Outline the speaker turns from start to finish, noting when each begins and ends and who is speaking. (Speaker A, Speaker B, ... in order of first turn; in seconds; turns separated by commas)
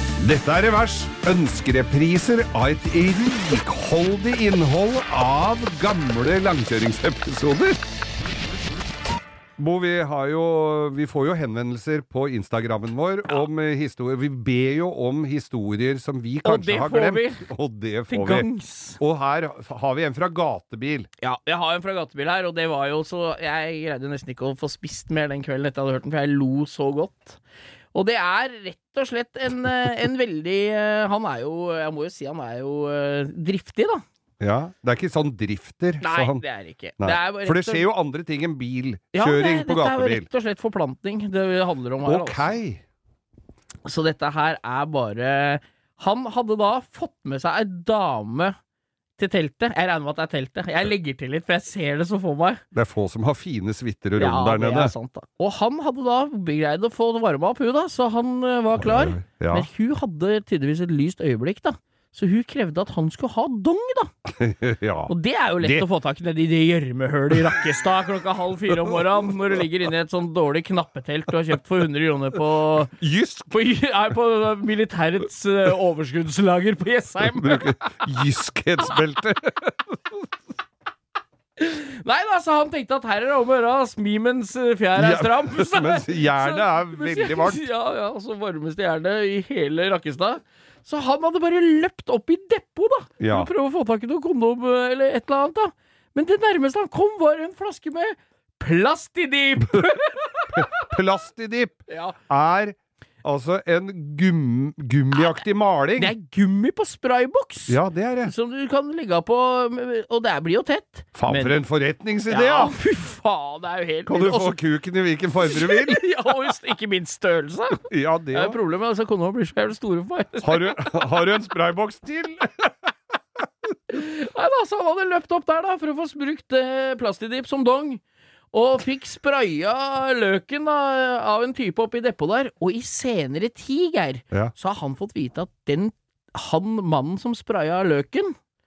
Speaker A: 0.2-7.8, Speaker A: 9.6-18.5, Speaker B: 16.4-17.4, Speaker B: 18.1-19.0, Speaker A: 19.0-21.1, Speaker B: 21.2-27.4, Speaker B: 27.9-34.0, Speaker A: 34.4-36.4, Speaker B: 36.0-37.8, Speaker A: 37.0-40.3, Speaker B: 39.1-42.5, Speaker A: 42.0-42.8, Speaker B: 43.8-48.5, Speaker B: 49.2-52.6, Speaker A: 52.7-54.9, Speaker B: 54.2-64.1, Speaker A: 58.8-59.7, Speaker A: 64.3-65.9, Speaker B: 65.1-72.9, Speaker A: 68.7-69.1, Speaker A: 73.0-73.5, Speaker B: 73.5-77.8, Speaker A: 77.2-80.2, Speaker B: 81.6-100.7, Speaker A: 84.9-87.6, Speaker A: 93.2-93.5, Speaker A: 100.5-101.8, Speaker B: 101.9-102.1, Speaker A: 102.3-106.1, Speaker B: 106.0-111.6, Speaker A: 107.7-108.3, Speaker A: 111.2-112.7, Speaker B: 112.3-114.6, Speaker A: 114.1-116.0, Speaker B: 115.4-121.0, Speaker A: 117.9-118.6, Speaker A: 120.4-122.7, Speaker B: 123.9-128.0, Speaker B: 128.5-138.3